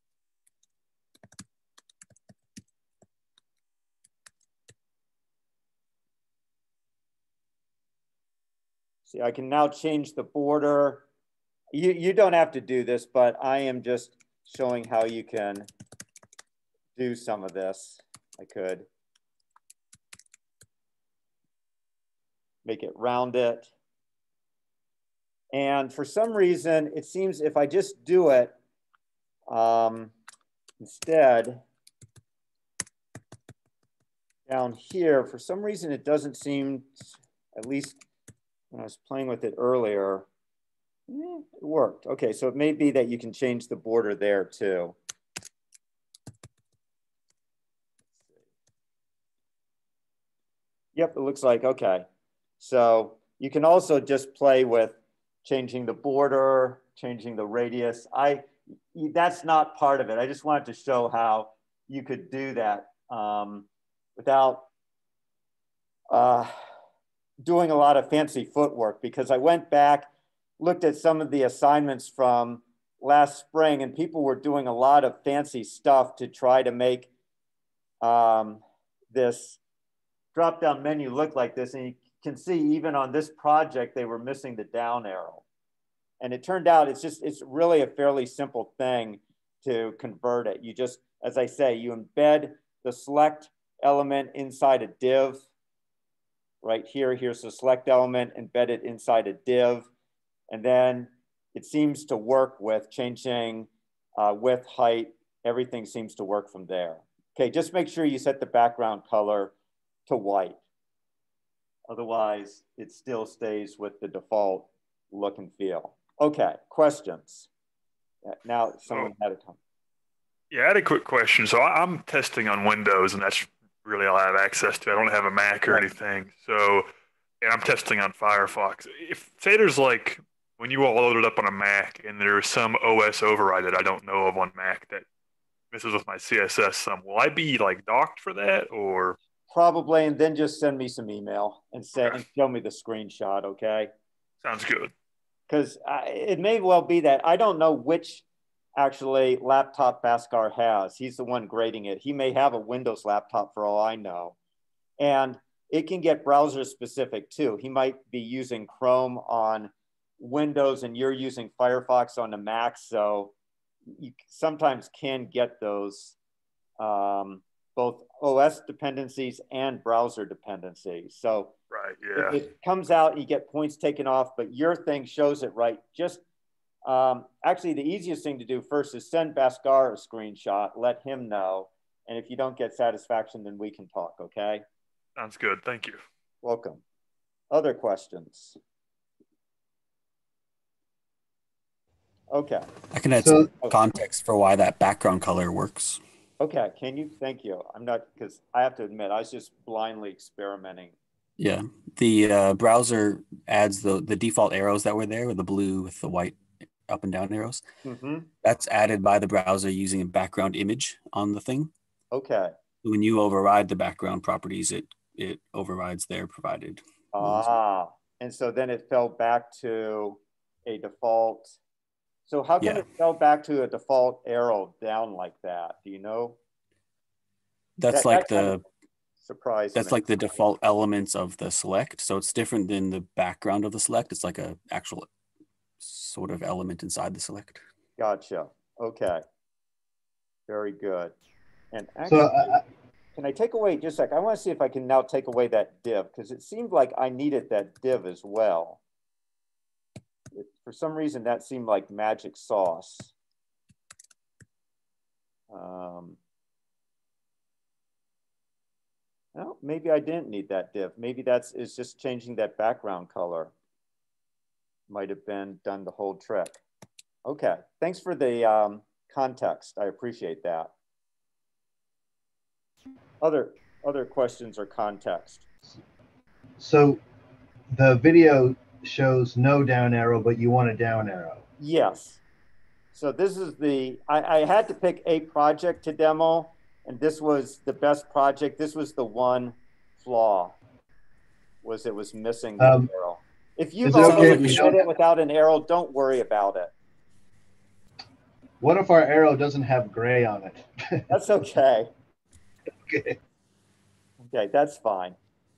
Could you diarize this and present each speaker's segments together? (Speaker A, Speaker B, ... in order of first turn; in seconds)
Speaker A: 9.1-11.0, 11.7-15.7, 16.9-18.9, 22.6-23.7, 25.5-28.6, 29.5-30.1, 30.8-31.6, 34.5-38.0, 38.7-40.3, 41.1-45.0, 50.9-52.0, 52.6-64.7, 66.1-66.5, 67.4-70.1, 70.6-77.1, 78.0-79.6, 80.3-85.4, 86.2-95.5, 96.6-99.9, 100.5-109.5, 110.1-110.6, 111.9-117.5, 118.2-119.6, 139.5-143.9, 145.5-148.2, 148.8-154.3, 155.0-163.3, 163.9-166.2, 166.8-171.5, 172.1-176.2, 176.8-184.6, 186.4-186.8, 187.5-188.6, 192.3-192.7, 196.4-200.9, 207.8-208.3, 212.1-212.5, 217.1-221.6, 222.3-226.4, 227.9-228.6, 229.2-230.0, 238.0-239.2, 240.5-241.1, 241.7-242.6, 243.2-248.8, 250.3-253.1, 255.5-256.2, 259.3-263.5, 264.9-266.6, 267.2-270.7, 273.2-275.4, 281.6-282.2, 282.9-290.6, 291.6-296.7, 301.1-301.9, 304.2-305.1
Speaker B: 120.5-126.9, 127.4-135.0, 135.7-139.2, 144.4-144.9, 171.7-172.4, 185.2-186.0
Speaker C: 192.9-196.0, 201.4-207.6, 208.4-211.7, 212.8-217.5, 227.8-228.6, 229.7-235.1, 235.8-237.6, 294.0-294.7
Speaker D: 193.2-193.5, 242.1-242.6, 276.6-277.0, 277.7-281.4, 292.6-292.9, 293.8-294.8, 298.6-301.1, 302.8-303.2